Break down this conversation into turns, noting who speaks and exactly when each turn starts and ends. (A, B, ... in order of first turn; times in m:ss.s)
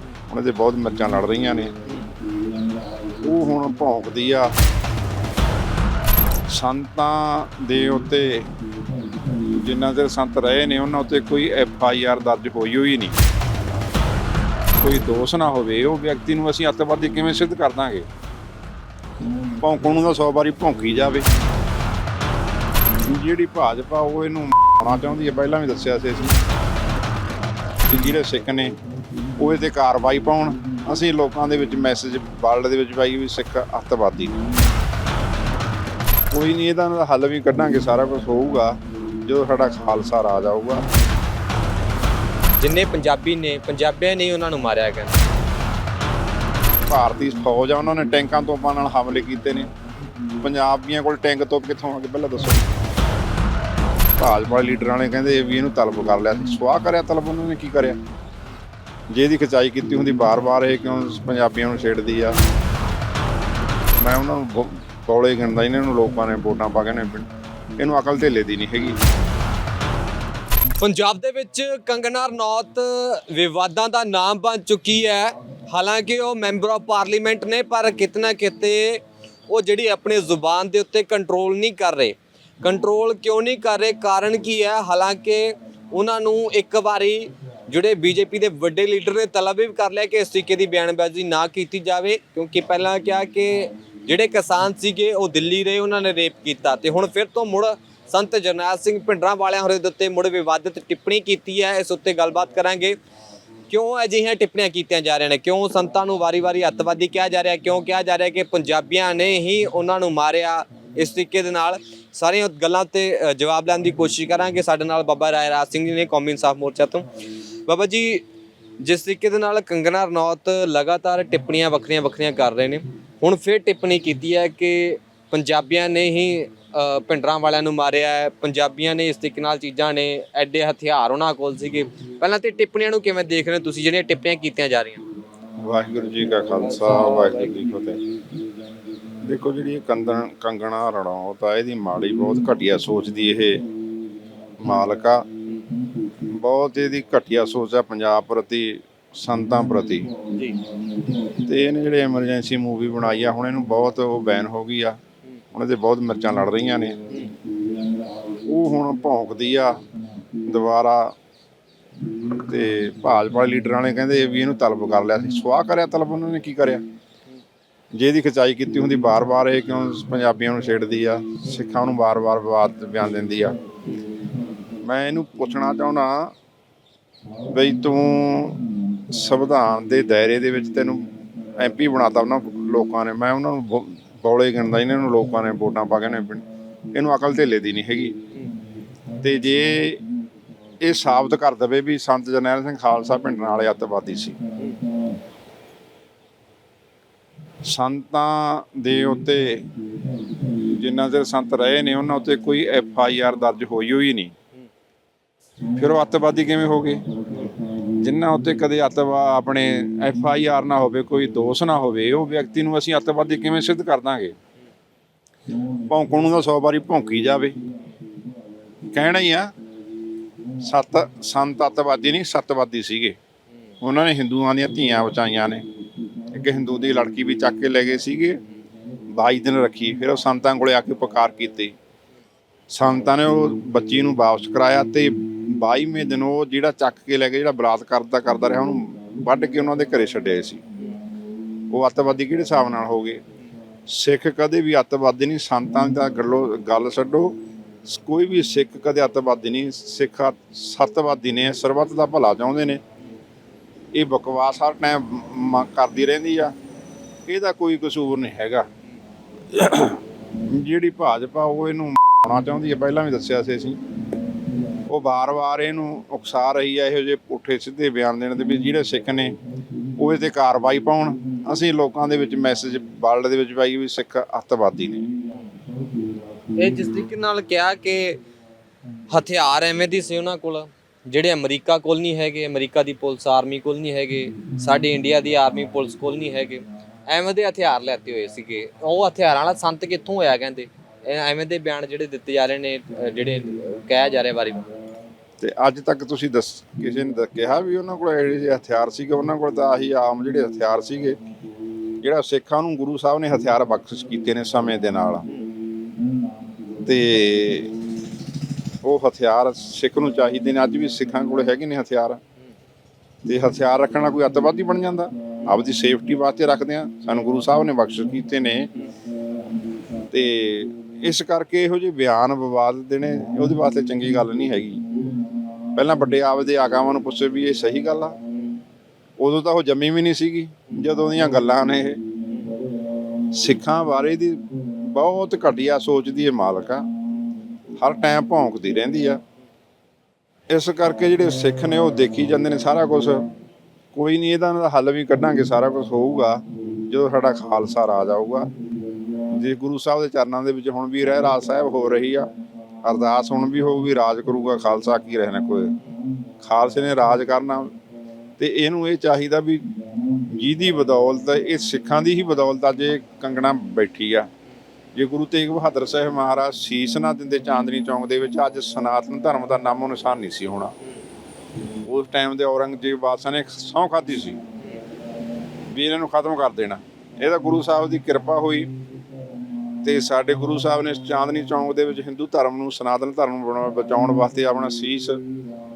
0:00.3-0:01.8 A
0:01.9-0:02.1 B
0:03.2-0:04.5 A
0:06.5-0:08.6 A
0:09.4-0:13.2 A
0:14.8-0:18.0 A
0:19.6-0:21.3 A
0:23.0-0:26.4 A
0:27.9-0:28.8 A
0:29.4-0:34.4 A
0:36.3-0:40.9 A
0:42.6-0:45.2 B
0:46.9-0:49.7 A
0:50.4-0:52.6 A
0:54.2-0:58.0 A
0:59.1-1:02.4 A
1:04.0-1:09.0 A
1:10.8-1:43.0 B
1:43.7-1:57.1 B
1:57.7-1:58.2 B
1:58.8-2:15.0 B
2:15.6-2:18.0 A
2:16.6-2:17.5 B
2:19.2-2:23.6 A
2:24.6-2:25.3 A
2:26.2-2:30.2 A
2:30.3-2:30.6 B
2:31.3-2:35.0 A
2:35.5-2:37.0 A
2:37.1-2:37.4 B
2:38.4-2:39.8 A
2:40.4-2:41.1 A
2:42.4-2:46.8 A
2:47.9-2:53.6 A
2:54.8-2:56.3 A
2:57.5-3:08.2 A
3:09.2-3:10.0 A
3:10.8-3:14.4 A
3:17.7-3:19.7 A
3:20.6-3:24.3 A
3:25.7-3:34.4 A
3:35.9-3:37.6 A
3:38.9-3:39.5 A
3:40.6-3:43.2 A
3:43.8-3:45.6 A
3:46.3-3:48.4 A
3:49.1-3:51.7 A
3:52.7-4:00.6 A
4:01.7-4:03.2 A
4:03.9-4:12.8 A
4:13.9-4:16.5 A
4:17.2-4:18.7 A
4:19.5-4:23.8 A
4:24.9-4:29.4 A
4:30.0-4:35.1 A
4:36.5-4:38.2 B
4:39.1-4:54.7 B
4:55.4-5:01.2 A
5:02.0-5:05.3 A
5:06.8-5:07.7 A
5:08.8-5:12.2 A
5:13.2-5:18.7 A
5:20.1-5:24.8 A
5:25.8-5:28.2 A
5:29.2-5:32.0 A
5:32.3-5:32.5 B
5:33.3-5:36.9 A
5:37.8-5:39.2 A
5:40.5-5:43.3 A
5:43.9-5:48.5 A
5:49.3-5:52.3 A
5:52.8-5:55.8 A
5:56.4-5:57.7 A
5:58.4-5:59.7 A
6:00.2-6:04.3 A
6:04.9-6:10.7 A
6:11.8-6:14.4 A
6:15.7-6:18.7 A
6:19.8-6:25.2 A